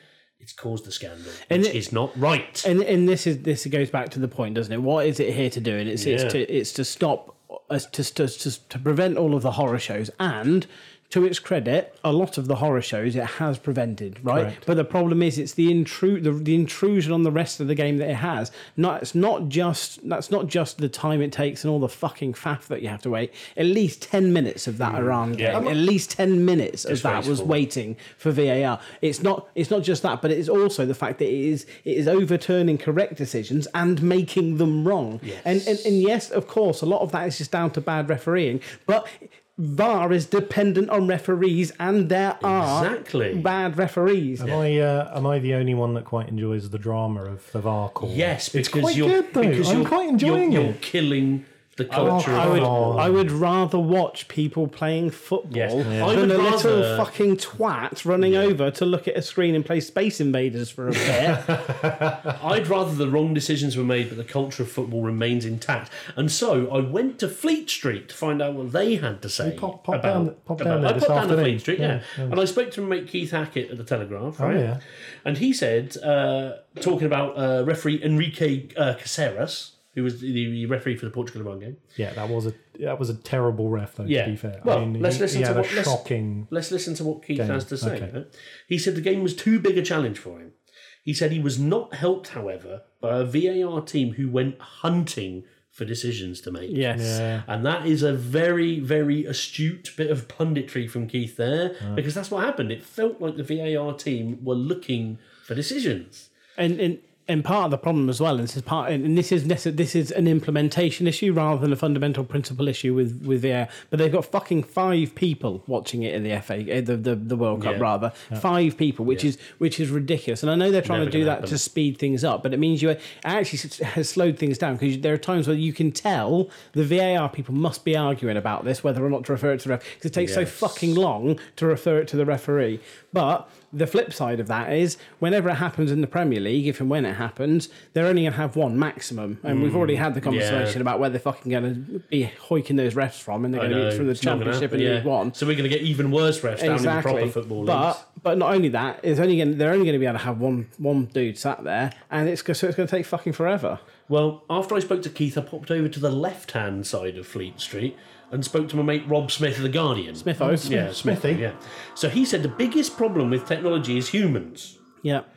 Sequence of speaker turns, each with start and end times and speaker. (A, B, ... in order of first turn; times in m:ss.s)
0:00.4-0:02.7 A
0:01.5-0:01.8 B
0:02.6-0:44.5 B
0:05.9-0:06.4 A
0:14.3-0:14.6 C
0:25.3-0:25.7 A
0:25.5-0:25.8 C
0:26.9-0:27.6 A
0:35.2-0:36.0 A
0:42.4-0:43.5 A
0:44.4-0:50.8 C
0:48.0-0:53.1 A
0:51.9-0:53.3 C
0:51.9-1:01.6 B
0:55.5-0:57.1 A
0:55.8-0:56.2 C
0:58.2-0:58.5 A
1:01.3-1:02.3 C
1:02.2-1:14.7 A
1:09.4-1:12.4 C
1:14.4-1:14.8 C
1:15.2-1:21.8 A
1:22.0-1:26.5 C
1:24.0-1:36.9 A
1:27.4-1:28.1 C
1:36.7-1:37.2 B
1:36.9-1:37.4 C
1:37.4-1:46.3 A
1:46.6-2:25.4 B
1:57.6-1:57.9 A
2:00.8-2:01.6 A
2:10.2-2:11.0 A
2:19.5-2:20.8 A
2:23.5-2:28.0 A
2:26.6-2:33.8 B
2:34.1-2:44.8 A
2:40.2-2:40.8 B
2:40.4-2:41.4 C